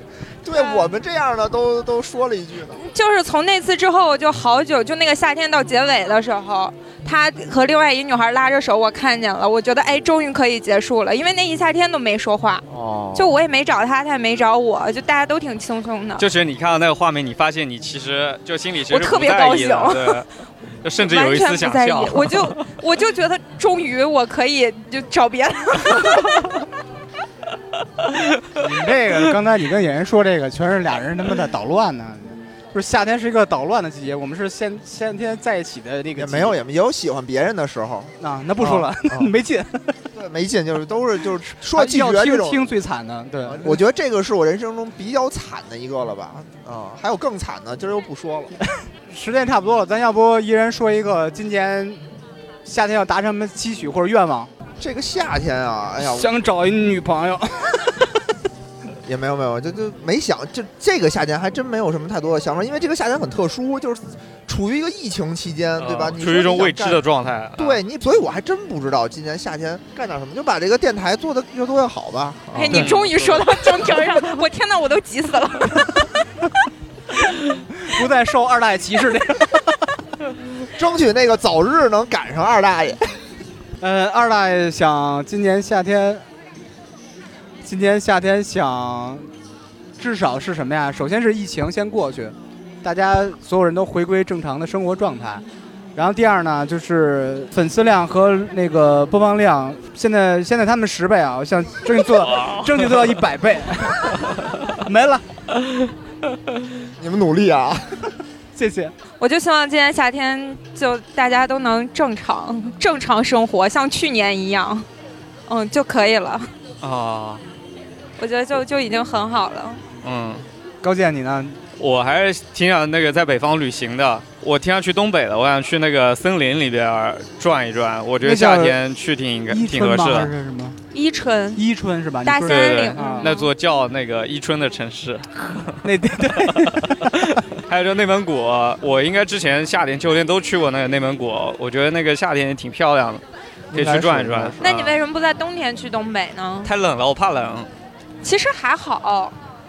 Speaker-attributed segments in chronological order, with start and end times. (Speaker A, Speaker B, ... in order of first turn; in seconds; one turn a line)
Speaker A: 0.4-2.8
Speaker B: 0.6-0.9
Speaker B: 2.8-16.2
Speaker A: 12.7-13.3
Speaker C: 16.2-20.3
Speaker B: 18.9-20.2
Speaker C: 20.8-22.6
Speaker B: 21.0-26.6
Speaker D: 28.6-36.6
Speaker A: 36.2-39.3
Speaker D: 38.2-40.0
Speaker A: 40.1-42.7
Speaker D: 41.7-43.8
Speaker A: 43.5-48.5
Speaker D: 49.1-52.0
Speaker D: 52.6-54.5
Speaker A: 54.8-56.3
Speaker D: 56.0-58.1
Speaker A: 59.0-67.0
Speaker C: 65.8-67.8
Speaker A: 67.6-72.9
Speaker B: 72.5-76.1
Speaker C: 72.7-73.6
Speaker D: 77.8-79.9
Speaker A: 80.8-83.1
Speaker D: 83.8-86.3
Speaker D: 87.7-89.3
Speaker D: 90.0-95.4
Speaker D: 96.0-105.2
Speaker C: 102.2-103.1
Speaker A: 107.0-108.1
Speaker D: 108.6-108.9
Speaker B: 109.2-114.9
Speaker B: 115.5-116.5
Speaker C: 116.8-117.4
Speaker B: 118.2-119.8
Speaker C: 120.0-120.5
Speaker D: 120.8-121.6
Speaker C: 121.8-130.3
Speaker D: 128.2-128.8
Speaker D: 129.5-130.8
Speaker B: 130.9-131.6
Speaker D: 131.6-133.3
Speaker B: 132.2-133.5
Speaker C: 132.4-135.8
Speaker D: 135.8-137.4
Speaker C: 136.4-144.9
Speaker A: 143.7-144.7
Speaker B: 144.6-146.7
Speaker C: 146.6-147.7
Speaker B: 148.2-149.3